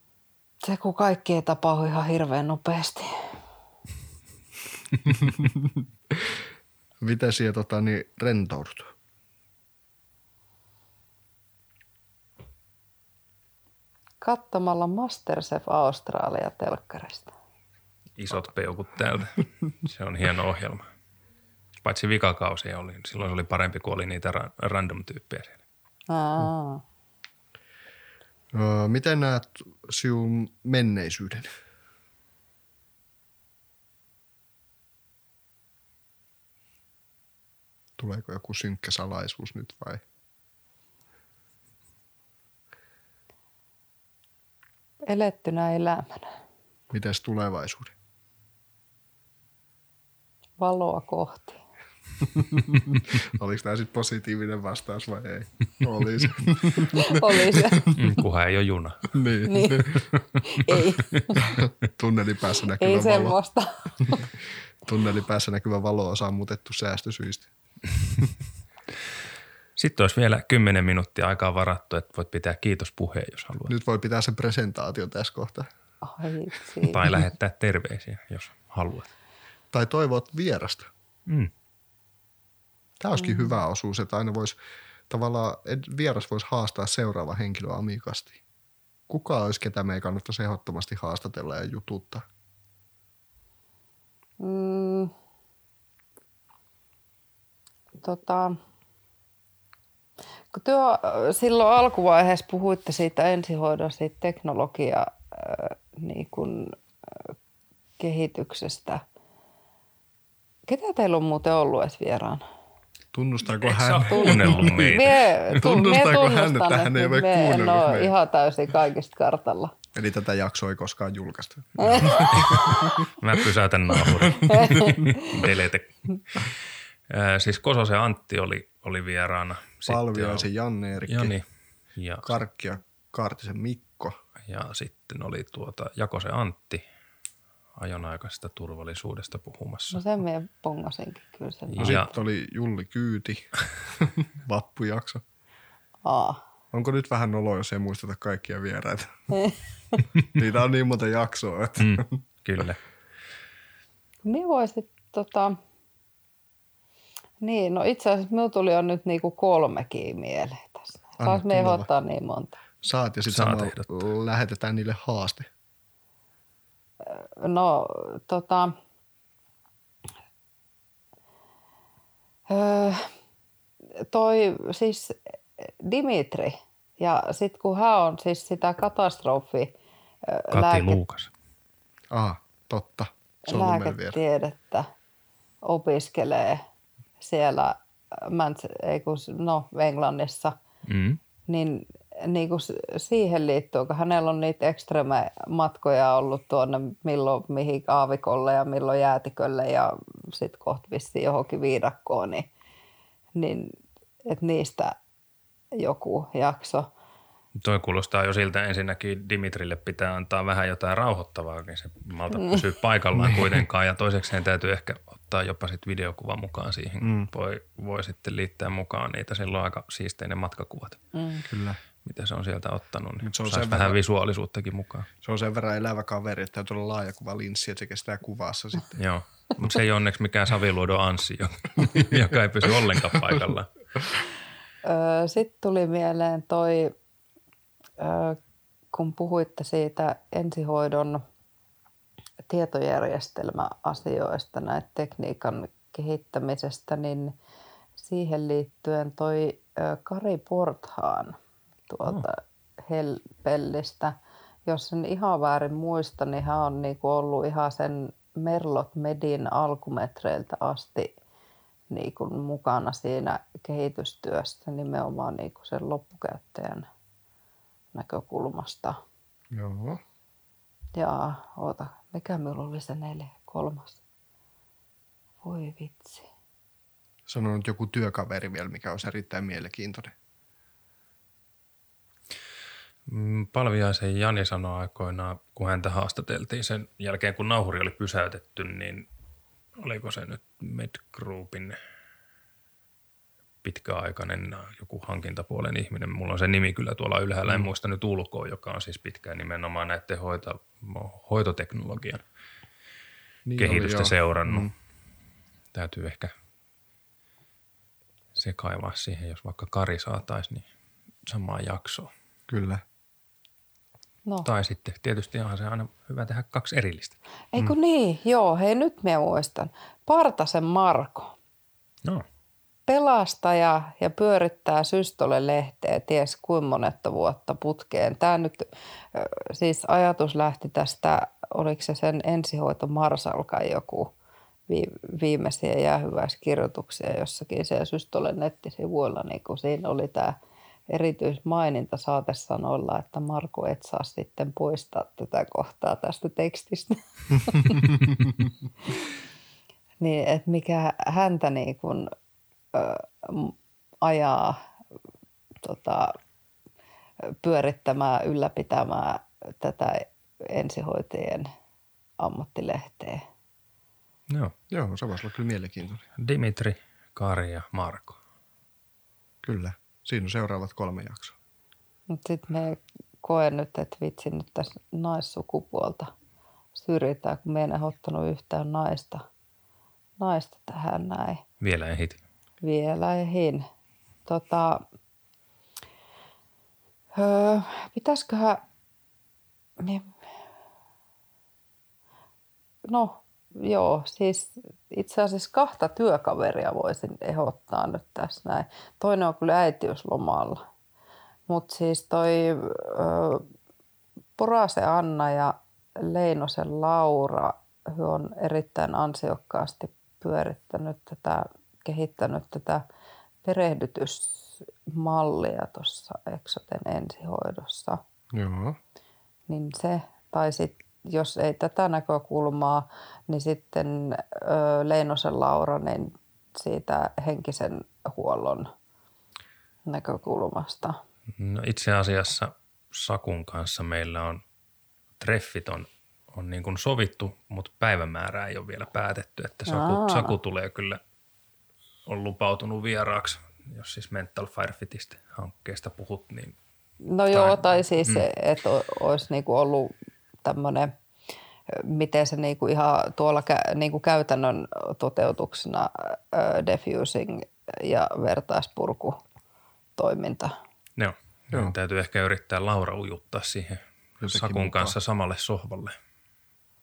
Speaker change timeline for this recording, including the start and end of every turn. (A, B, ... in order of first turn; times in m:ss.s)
0:00.6-0:03.3 A
0:05.2-0:06.4 B
0:07.0-0:08.9 B
0:14.2-0:17.3 A
0:18.2-0:20.8 C
0:21.8-0:25.6 C
0:26.1-0:26.8 A
0:28.5-0:31.5 B
0:38.0-0:40.0 B
0:45.0-0:46.3 A
0:46.9-0:47.9 B
0:50.6-0:51.6 A
0:52.3-0:58.0 B
0:56.8-0:57.9 A
0:57.9-0:59.1 C
0:59.1-1:00.1 B
0:59.4-1:01.4 A
1:01.3-1:03.4 B
1:02.8-1:04.2 A
1:04.0-1:04.3 B
1:04.8-1:07.5 B
1:09.8-1:13.7 C
1:13.7-1:15.7 B
1:16.0-1:17.0 A
1:16.8-1:19.1 C
1:19.7-1:20.9 B
1:23.0-1:24.6 B
1:25.1-1:28.4 B
1:29.1-1:32.2 B
1:34.4-1:35.1 A
1:38.0-1:38.6 A
1:40.5-1:47.3 A
1:48.0-1:49.0 A
1:50.7-1:52.4 A
1:53.1-1:55.0 B
1:53.6-1:55.2 C
1:54.1-1:59.7 A
1:55.5-1:58.1 B
1:59.9-2:03.1 B
2:01.8-2:02.9 A
2:02.3-2:10.5 C
2:04.4-2:05.4 A
2:09.9-2:11.3 B
2:11.1-2:12.4 C
2:12.2-2:14.2 B
2:14.5-2:16.8 C
2:17.8-2:20.0 C
2:19.9-2:22.0 A
2:21.7-2:22.1 C
2:21.8-2:25.2 B
2:26.0-2:26.4 A
2:26.7-2:29.1 B
2:29.3-2:30.0 A
2:30.3-2:32.2 B
2:31.8-2:32.8 C
2:34.2-2:35.6 A
2:37.4-2:42.6 A
2:41.2-2:41.9 B
2:42.8-2:45.5 B
2:43.2-2:43.9 C
2:47.0-2:48.8 A
2:52.5-2:53.1 A
2:54.0-3:01.0 A
3:00.5-3:01.3 C
3:02.1-3:04.2 B
3:03.5-3:04.9 A
3:05.6-3:06.6 A
3:07.2-3:10.6 A
3:10.9-3:11.2 C
3:11.5-3:22.5 A
3:23.3-3:23.7 A
3:24.2-3:25.0 A
3:25.7-3:26.9 A
3:27.6-3:41.0 C
3:33.2-3:33.6 B
3:37.0-3:37.3 B
3:41.1-3:41.4 A
3:41.5-3:41.8 B
3:42.0-3:45.1 C
3:43.2-3:44.0 B
3:45.2-3:49.0 B
3:48.9-3:53.7 C
3:54.8-3:56.9 A
3:58.0-3:58.4 A
3:58.9-4:01.2 A
4:02.4-4:07.3 A
4:08.0-4:11.4 A
4:11.9-4:21.1 A
4:21.9-4:26.9 A
4:27.9-4:29.0 A
4:29.5-4:30.0 B
4:31.0-4:34.0 A
4:35.4-4:36.3 A
4:37.3-4:40.1 B
4:43.1-4:49.1 C
4:49.8-4:51.8 C
4:53.6-5:02.2 C
5:03.4-5:04.7 B
5:03.6-5:04.7 C
5:05.7-5:06.3 C
5:08.3-5:10.7 C
5:11.2-5:12.1 C
5:12.5-5:12.8 B
5:14.4-5:17.2 C
5:17.5-5:21.3 A
5:22.9-5:34.1 A
5:34.7-5:40.4 A
5:40.9-5:47.9 A
5:50.0-5:52.1 A
5:52.7-5:54.6 A
5:55.6-5:56.2 A
5:57.2-6:01.5 A
6:02.2-6:03.2 A
6:04.3-6:04.5 C
6:04.7-6:06.0 B
6:06.2-6:08.2 C
6:09.4-6:11.4 B
6:12.1-6:16.1 A
6:16.7-6:19.3 A
6:20.2-6:21.4 A
6:21.6-6:22.2 C
6:22.6-6:23.6 A
6:24.2-6:24.8 A
6:27.1-6:28.6 A
6:29.8-6:30.2 A
6:32.8-6:40.6 A
6:41.5-6:43.4 A
6:44.4-6:52.8 A
6:53.4-6:58.0 A
6:58.3-6:58.8 B
6:59.5-7:08.7 A
7:09.9-7:11.0 A
7:11.4-7:14.4 C
7:15.2-7:21.0 C
7:19.7-7:20.3 A
7:22.0-7:26.6 C
7:27.0-7:30.9 A
7:27.3-7:28.2 C
7:31.7-7:39.2 A
7:40.0-7:40.6 A
7:41.0-7:46.0 C
7:44.2-7:45.0 B